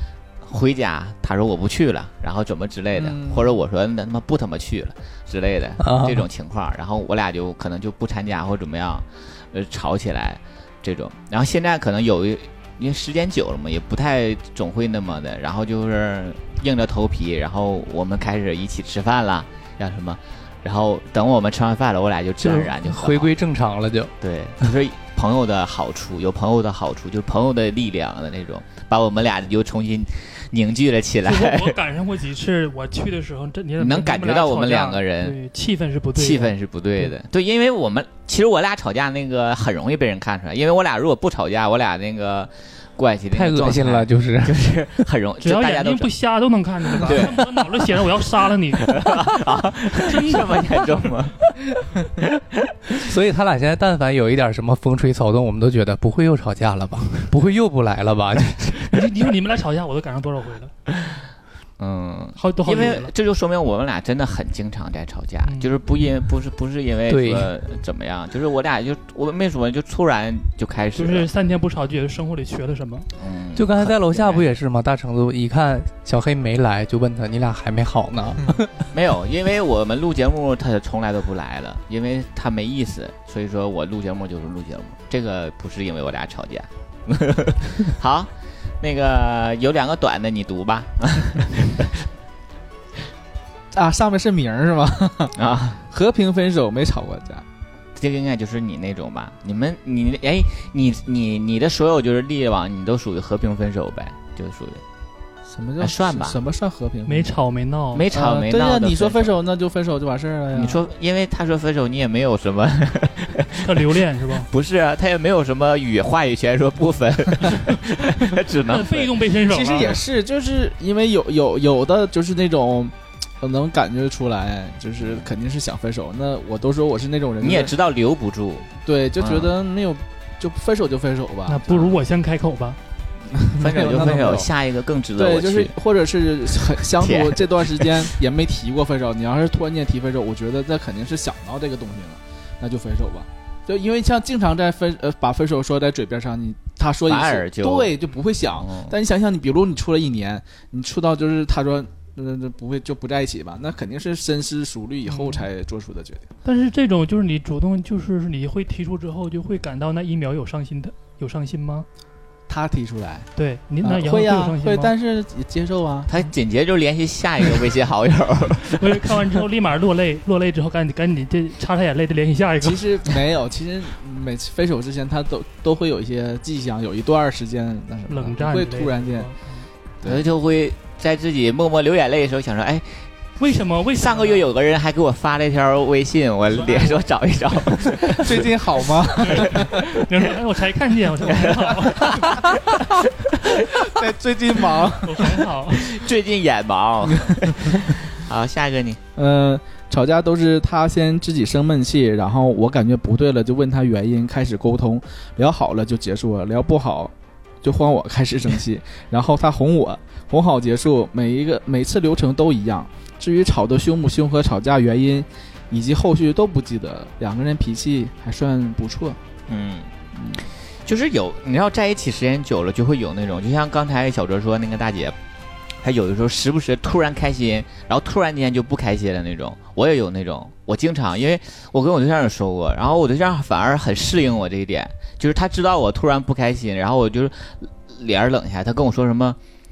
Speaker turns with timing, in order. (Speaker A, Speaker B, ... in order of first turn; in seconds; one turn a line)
Speaker A: 0.5-23.3
Speaker B: 3.0-3.5
Speaker C: 5.8-6.3
Speaker C: 22.4-24.1
Speaker A: 24.2-31.8
Speaker D: 31.2-36.5
Speaker A: 33.8-35.4
Speaker A: 36.2-46.1
Speaker C: 43.3-44.6
Speaker D: 45.4-49.0
Speaker A: 47.0-47.4
Speaker A: 48.8-51.6
Speaker C: 52.9-59.1
Speaker D: 58.8-60.7
Speaker A: 61.8-71.3
Speaker D: 62.4-63.1
Speaker D: 65.4-65.8
Speaker C: 67.1-67.5
Speaker D: 71.0-73.1
Speaker A: 73.2-74.5
Speaker C: 73.6-78.7
Speaker A: 78.9-88.3
Speaker A: 88.8-91.9
Speaker B: 93.7-95.3
Speaker A: 95.4-95.8
Speaker B: 95.9-97.4
Speaker A: 98.0-104.8
Speaker B: 105.5-107.3
Speaker A: 105.8-106.4
Speaker D: 107.1-108.1
Speaker A: 107.9-109.3
Speaker B: 108.1-110.8
Speaker A: 110.5-113.8
Speaker D: 113.6-114.5
Speaker A: 114.5-119.2
Speaker D: 118.0-120.0
Speaker B: 119.4-127.7
Speaker A: 125.0-125.3
Speaker A: 127.4-129.5
Speaker B: 128.8-131.9
Speaker D: 131.5-132.8
Speaker B: 133.4-134.5
Speaker A: 133.6-135.7
Speaker B: 135.2-156.3
Speaker A: 136.9-137.9
Speaker A: 147.1-147.9
Speaker A: 148.6-148.9
Speaker D: 155.1-155.5
Speaker D: 156.4-161.9
Speaker B: 162.5-163.3
Speaker D: 163.4-164.9
Speaker B: 163.8-166.1
Speaker A: 166.1-169.1
Speaker D: 168.7-172.8
Speaker B: 172.6-179.3
Speaker D: 178.1-179.7
Speaker A: 180.1-183.0
Speaker D: 183.4-184.5
Speaker A: 183.9-188.5
Speaker D: 186.6-187.1
Speaker B: 188.1-189.8
Speaker D: 189.2-192.6
Speaker A: 191.3-193.9
Speaker B: 193.5-195.4
Speaker D: 195.0-195.9
Speaker A: 195.8-199.0
Speaker B: 197.1-197.5
Speaker B: 199.2-219.2
Speaker A: 219.5-225.2
Speaker A: 225.8-239.4